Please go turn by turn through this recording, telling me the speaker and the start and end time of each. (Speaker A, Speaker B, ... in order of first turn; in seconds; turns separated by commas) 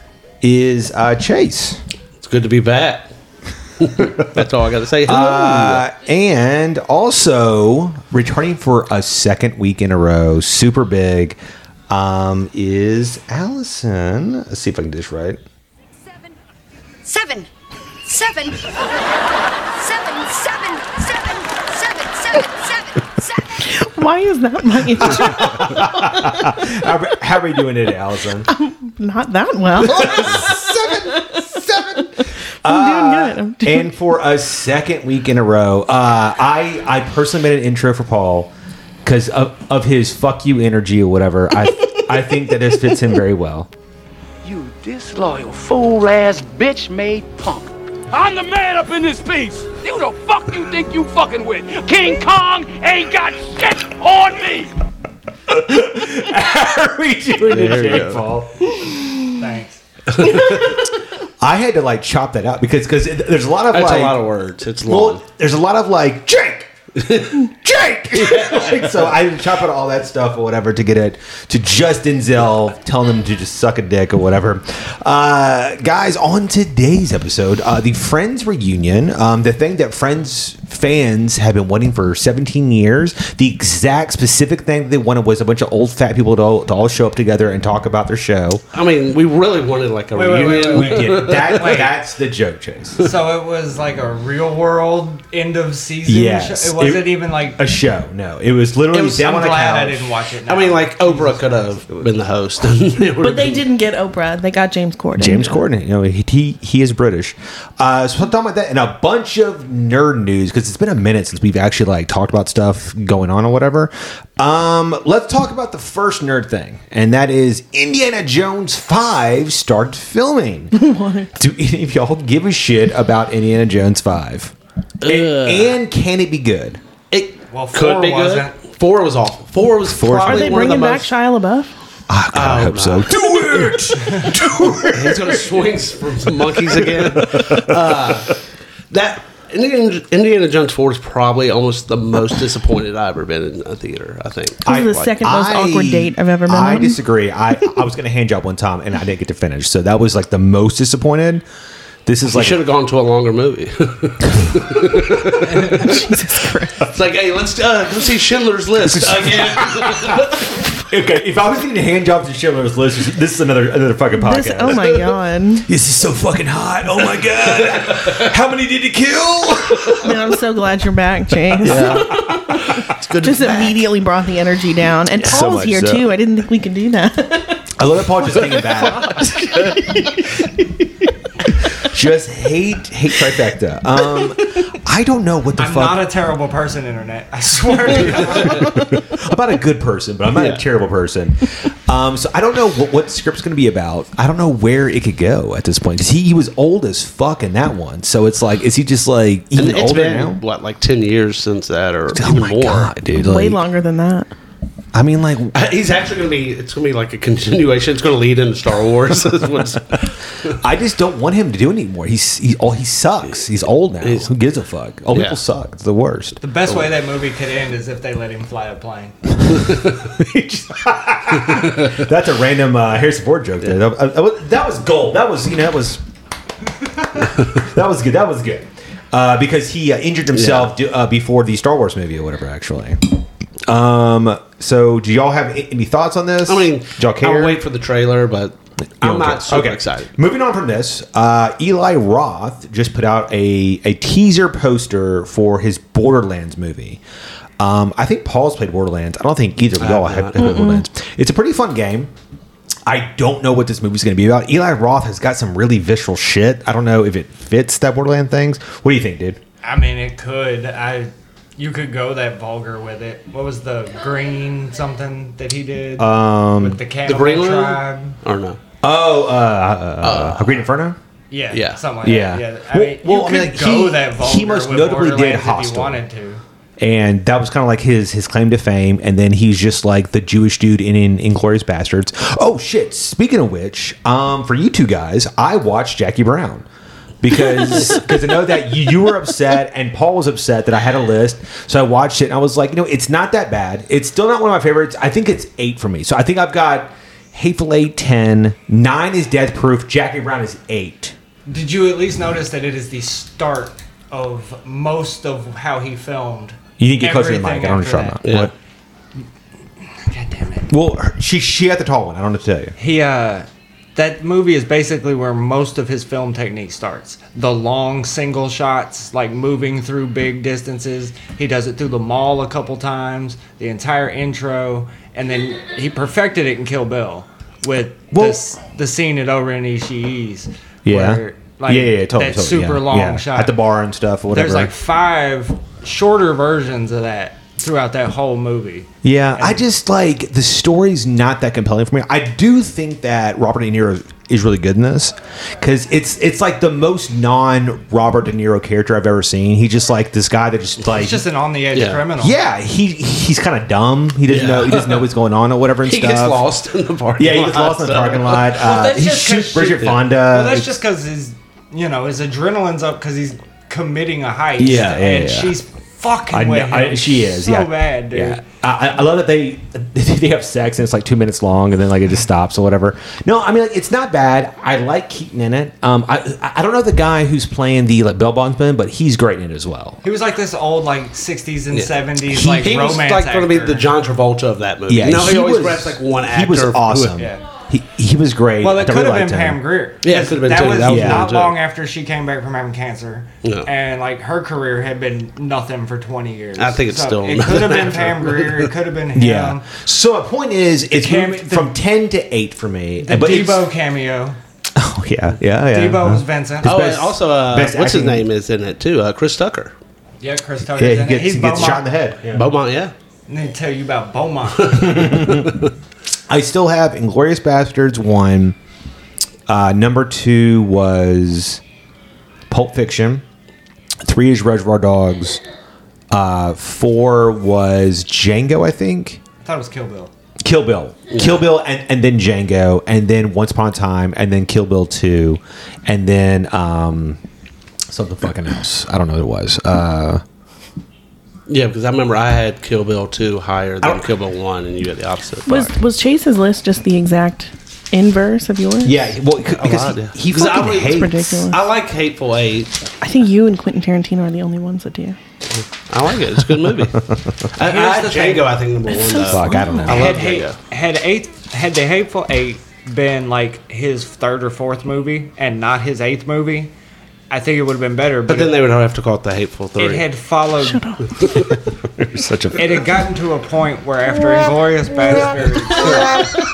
Speaker A: 0.4-1.8, Speaker B: 2.2-3.1, Speaker B: 3.8-5.8, Speaker A: 4.0-4.5, Speaker A: 5.0-11.4, Speaker A: 11.9-15.4, Speaker C: 17.0-17.5, Speaker C: 18.0-18.9, Speaker C: 19.7-23.6, Speaker D: 23.6-26.6, Speaker A: 25.0-28.5, Speaker D: 28.5-32.1, Speaker A: 29.8-38.5, Speaker D: 32.6-34.0, Speaker A: 39.0-43.7, Speaker E: 44.4-54.7, Speaker A: 55.5-58.9, Speaker B: 57.4-58.2, Speaker F: 59.4-59.8, Speaker B: 60.1-60.7, Speaker A: 60.2-64.2, Speaker B: 63.7-65.2, Speaker A: 64.8-66.7, Speaker B: 67.0-67.4, Speaker A: 67.3-88.6, Speaker B: 68.2-69.0, Speaker B: 88.7-91.8, Speaker F: 90.1-91.9, Speaker A: 90.6-93.0, Speaker F: 93.0-97.6, Speaker A: 96.0-100.1, Speaker B: 98.9-99.2, Speaker F: 99.2-101.7, Speaker B: 100.5-103.7, Speaker D: 103.2-105.6, Speaker A: 105.2-120.8, Speaker D: 120.7-121.3, Speaker A: 121.3-126.8, Speaker B: 125.0-125.8, Speaker B: 127.1-131.1, Speaker F: 127.5-128.6, Speaker A: 129.8-130.8, Speaker D: 130.2-131.7, Speaker A: 132.1-135.7, Speaker B: 132.3-133.9, Speaker B: 134.8-138.4, Speaker A: 136.4-138.3, Speaker B: 138.9-145.0, Speaker D: 144.6-147.0, Speaker A: 144.7-151.4, Speaker A: 152.1-152.6, Speaker B: 152.3-155.9, Speaker A: 155.0-155.8, Speaker D: 155.4-156.9, Speaker B: 156.8-160.5, Speaker A: 158.8-170.3, Speaker D: 164.2-165.7, Speaker D: 170.0-177.7, Speaker A: 171.6-172.4, Speaker B: 171.6-173.8, Speaker A: 175.2-176.1, Speaker A: 177.8-179.7, Speaker D: 178.9-180.7, Speaker A: 181.8-186.1, Speaker F: 185.6-188.8, Speaker A: 188.0-200.4, Speaker B: 199.5-202.9, Speaker A: 202.1-203.6, Speaker D: 203.1-204.3, Speaker A: 204.9-205.7, Speaker B: 205.5-210.6, Speaker A: 210.4-216.4, Speaker B: 214.0-214.3, Speaker F: 216.4-219.1, Speaker A: 219.4-226.0, Speaker B: 221.5-221.9, Speaker A: 226.8-237.6, Speaker B: 230.3-230.7, Speaker B: 236.4-240.1, Speaker A: 239.0-247.0, Speaker A: 247.6-252.1, Speaker B: 249.8-250.5, Speaker D: 250.4-250.8, Speaker A: 252.8-259.4, Speaker F: 259.6-268.1, Speaker A: 266.0-266.8, Speaker B: 267.1-268.6, Speaker A: 268.8-271.0, Speaker B: 270.0-270.6, Speaker F: 271.3-276.4, Speaker B: 271.5-271.8, Speaker A: 272.0-276.0, Speaker A: 276.8-286.6, Speaker A: 287.2-301.1, Speaker F: 301.5-308.4, Speaker A: 306.8-308.5, Speaker B: 308.2-308.5, Speaker F: 310.1-310.7, Speaker A: 310.7-312.8, Speaker F: 312.8-333.5, Speaker A: 328.1-328.4, Speaker A: 330.8-334.7, Speaker F: 334.3-339.6, Speaker A: 339.0-351.2, Speaker F: 350.8-352.4, Speaker B: 351.7-352.0, Speaker A: 352.2-356.4, Speaker B: 354.3-355.1, Speaker B: 355.8-358.5, Speaker A: 357.1-360.8, Speaker F: 358.5-368.4, Speaker A: 364.6-365.5, Speaker A: 366.3-380.0, Speaker F: 380.0-383.9, Speaker B: 381.7-387.2, Speaker A: 384.9-389.6, Speaker F: 387.1-387.5, Speaker F: 388.6-399.7, Speaker B: 390.0-391.5, Speaker A: 390.8-391.3, Speaker B: 396.6-398.7, Speaker A: 399.1-403.7, Speaker F: 400.9-401.7, Speaker F: 403.0-404.4, Speaker A: 404.7-408.3, Speaker F: 405.7-406.8, Speaker B: 406.6-409.7, Speaker F: 410.2-411.8, Speaker A: 410.8-412.5, Speaker B: 412.3-412.9, Speaker F: 413.3-415.2, Speaker B: 414.5-415.7, Speaker A: 414.7-415.6, Speaker A: 416.3-418.6, Speaker A: 419.5-421.6, Speaker A: 422.5-423.2, Speaker A: 424.0-425.4, Speaker A: 426.1-429.2, Speaker F: 429.4-430.1, Speaker A: 430.4-437.2, Speaker A: 437.9-440.2, Speaker B: 441.5-445.8, Speaker A: 443.8-444.1, Speaker D: 445.4-449.1, Speaker A: 448.8-451.5, Speaker B: 449.6-452.8, Speaker D: 450.3-451.7, Speaker D: 453.0-455.1, Speaker B: 455.5-460.6, Speaker A: 456.6-460.3, Speaker F: 457.6-458.5, Speaker D: 458.9-459.9, Speaker F: 459.9-466.7, Speaker F: 467.3-468.5, Speaker B: 468.3-470.1, Speaker F: 469.8-470.9, Speaker D: 470.6-471.1, Speaker B: 471.2-471.5, Speaker A: 471.9-473.0, Speaker F: 472.5-476.4, Speaker A: 475.8-476.4